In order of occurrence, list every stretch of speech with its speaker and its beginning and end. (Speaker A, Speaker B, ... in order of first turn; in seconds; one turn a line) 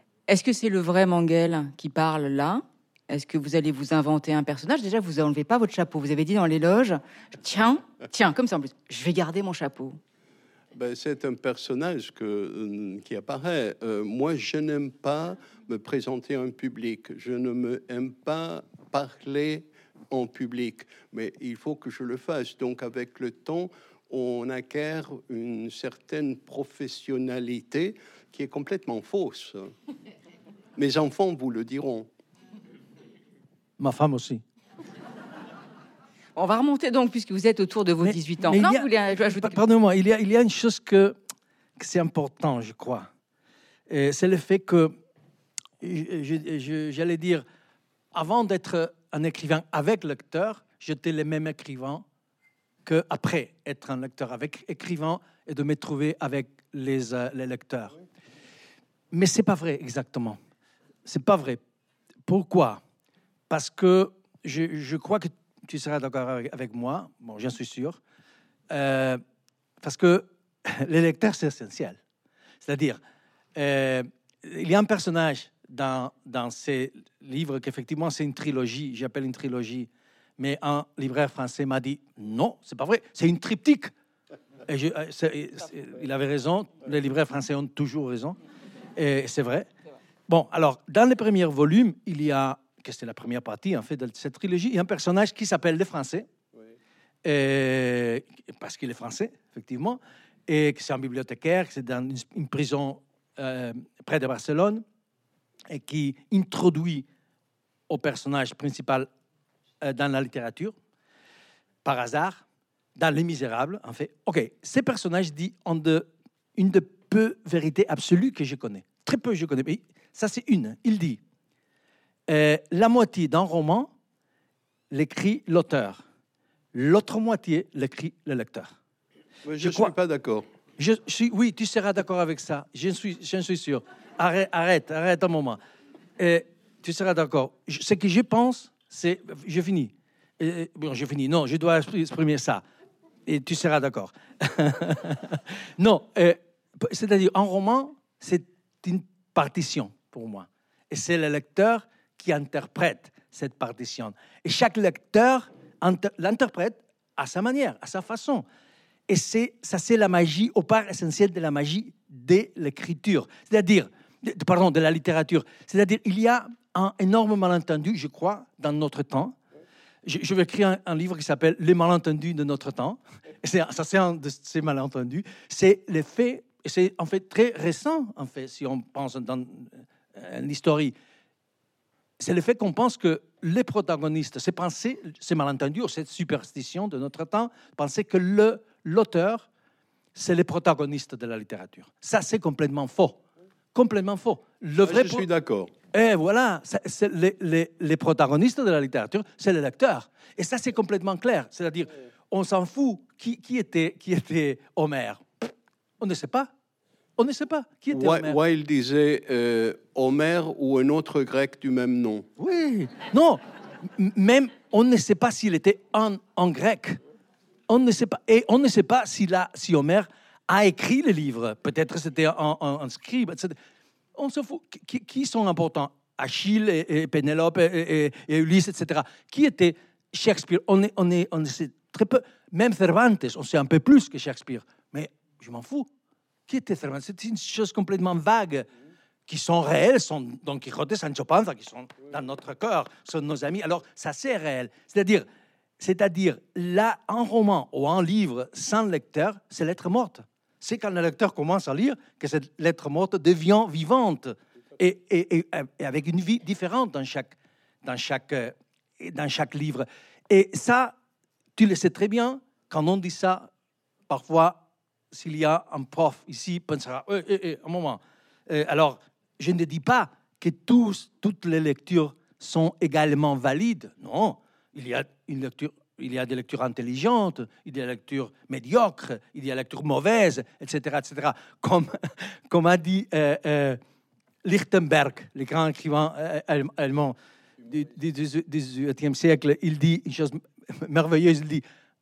Speaker A: 0.3-10.0
Speaker B: 10.7-29.7
Speaker B: 30.8-32.1
Speaker C: 33.8-34.4
Speaker A: 36.4-39.6
Speaker C: 38.0-41.1
Speaker C: 41.8-43.1
Speaker C: 43.9-44.9
Speaker C: 45.8-47.5
Speaker C: 48.1-52.0
Speaker C: 52.9-58.0
Speaker C: 59.1-60.4
Speaker C: 61.1-61.6
Speaker C: 62.3-62.8
Speaker C: 63.5-68.0
Speaker C: 68.7-69.2
Speaker C: 69.8-72.0
Speaker C: 72.7-73.0
Speaker C: 73.6-83.9
Speaker C: 84.7-88.4
Speaker C: 89.0-89.7
Speaker C: 90.3-96.3
Speaker C: 97.2-104.8
Speaker C: 105.7-107.1
Speaker C: 107.9-109.1
Speaker C: 109.8-110.7
Speaker C: 111.8-112.4
Speaker C: 113.0-121.2
Speaker C: 122.3-123.9
Speaker C: 124.9-126.0
Speaker C: 126.7-128.8
Speaker B: 129.4-130.4
Speaker C: 129.6-129.9
Speaker C: 130.8-135.6
Speaker C: 136.2-142.6
Speaker C: 143.3-158.4
Speaker C: 159.1-169.4
Speaker C: 170.0-180.9
Speaker C: 182.2-189.5
Speaker C: 190.2-193.2
Speaker C: 193.7-195.2
Speaker B: 194.8-195.7
Speaker C: 195.9-206.5
Speaker C: 207.2-208.4
Speaker B: 207.9-212.3
Speaker C: 212.4-217.0
Speaker C: 217.7-223.6
Speaker C: 224.2-235.9
Speaker C: 236.5-238.7
Speaker C: 239.3-245.3
Speaker C: 245.8-260.9
Speaker C: 261.6-263.5
Speaker C: 264.1-283.8
Speaker C: 284.4-291.6